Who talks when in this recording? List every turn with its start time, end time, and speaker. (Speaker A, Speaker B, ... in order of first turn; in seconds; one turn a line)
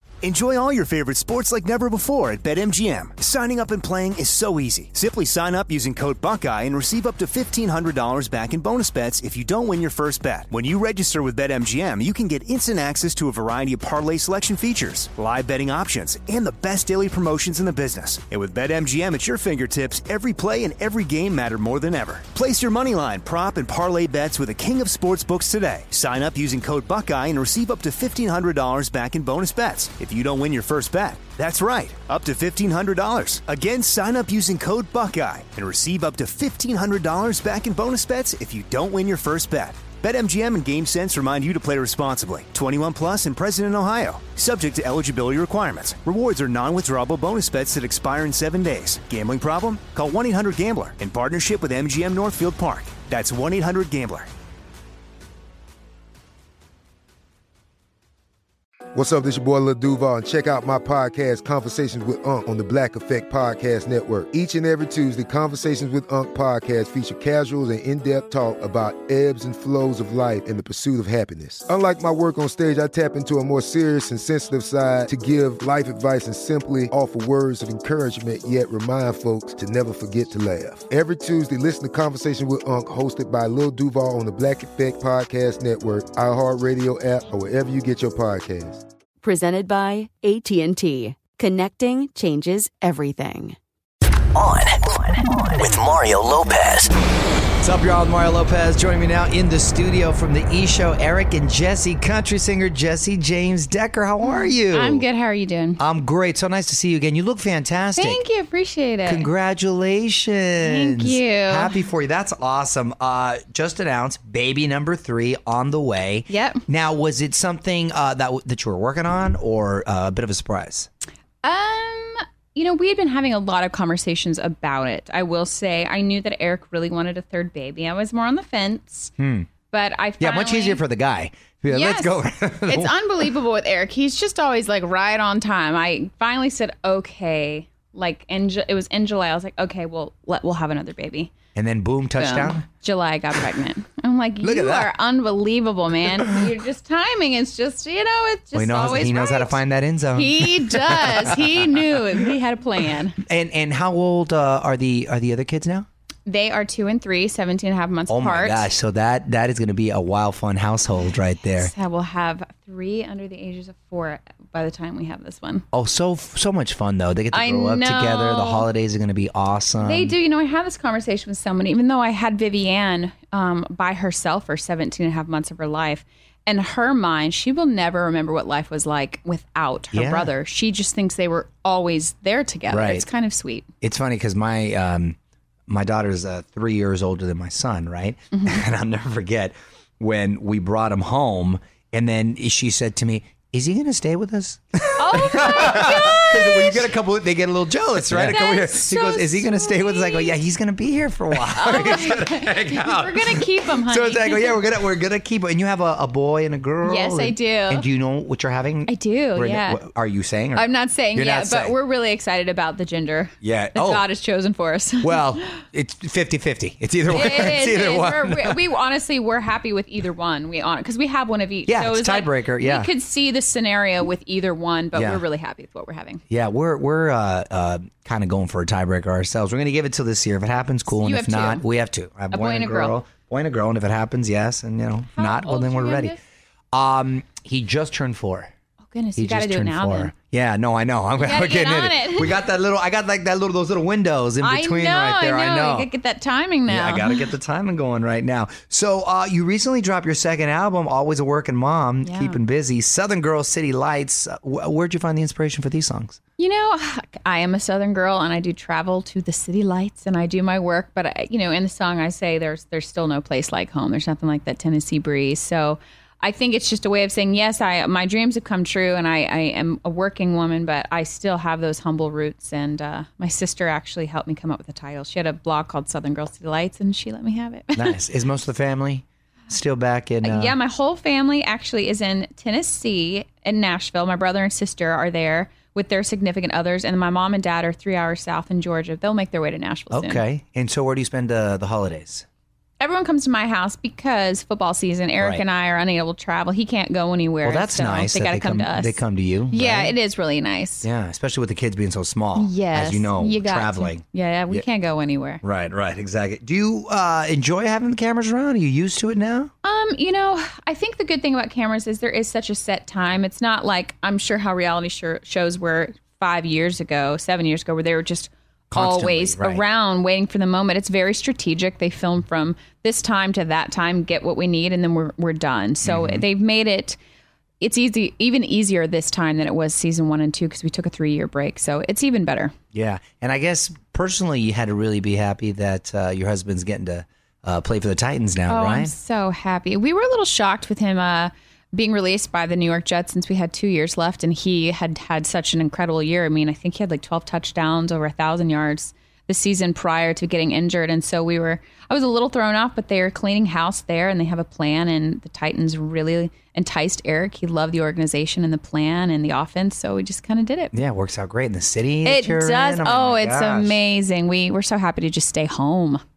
Speaker A: 0.2-54.3
Speaker B: 58.9-88.8
Speaker C: 89.2-93.5
Speaker D: 94.3-96.9
Speaker E: 97.6-105.0
Speaker F: 104.2-105.8
Speaker E: 105.8-108.2
Speaker F: 108.0-109.3
Speaker E: 109.0-120.9
Speaker F: 110.6-111.8
Speaker F: 116.3-116.6
Speaker F: 121.4-129.1
Speaker E: 129.2-129.5
Speaker F: 129.7-130.8
Speaker E: 130.2-133.0
Speaker F: 131.7-141.3
Speaker E: 141.5-142.6
Speaker F: 142.2-149.6
Speaker E: 144.4-144.9
Speaker E: 148.5-151.5
Speaker F: 150.1-153.2
Speaker E: 153.2-155.9
Speaker F: 156.2-158.7
Speaker E: 158.1-161.7
Speaker F: 161.5-165.6
Speaker E: 165.7-170.1
Speaker F: 167.3-168.7
Speaker F: 169.8-183.7
Speaker E: 179.9-180.3
Speaker E: 182.7-183.1
Speaker E: 183.8-185.2
Speaker E: 185.7-211.7
Speaker F: 194.9-196.9
Speaker F: 198.1-200.4
Speaker F: 201.4-204.6
Speaker F: 206.8-207.8
Speaker F: 208.9-209.8
Speaker F: 210.5-215.4
Speaker E: 213.4-214.1
Speaker E: 215.0-218.6
Speaker F: 217.1-226.2
Speaker E: 221.7-222.9
Speaker E: 224.9-225.2
Speaker E: 226.3-236.2
Speaker F: 230.9-231.6
Speaker F: 232.3-233.0
Speaker F: 235.1-236.2
Speaker E: 236.7-238.5
Speaker F: 238.8-240.1
Speaker E: 239.2-245.9
Speaker F: 241.2-242.4
Speaker F: 244.4-247.3
Speaker E: 246.7-256.2
Speaker F: 252.0-252.4
Speaker F: 256.4-278.0
Speaker E: 277.7-280.6
Speaker F: 280.2-290.2
Speaker E: 289.9-292.2
Speaker F: 292.8-300.9
Speaker E: 295.2-295.4
Speaker E: 297.4-299.9
Speaker E: 300.8-304.6
Speaker F: 302.3-305.4
Speaker E: 305.4-309.5
Speaker F: 309.6-327.0
Speaker E: 318.7-319.6
Speaker E: 325.8-326.2
Speaker F: 327.6-332.5
Speaker E: 332.7-338.9
Speaker F: 338.5-360.7
Speaker E: 360.7-363.8
Speaker F: 362.0-366.0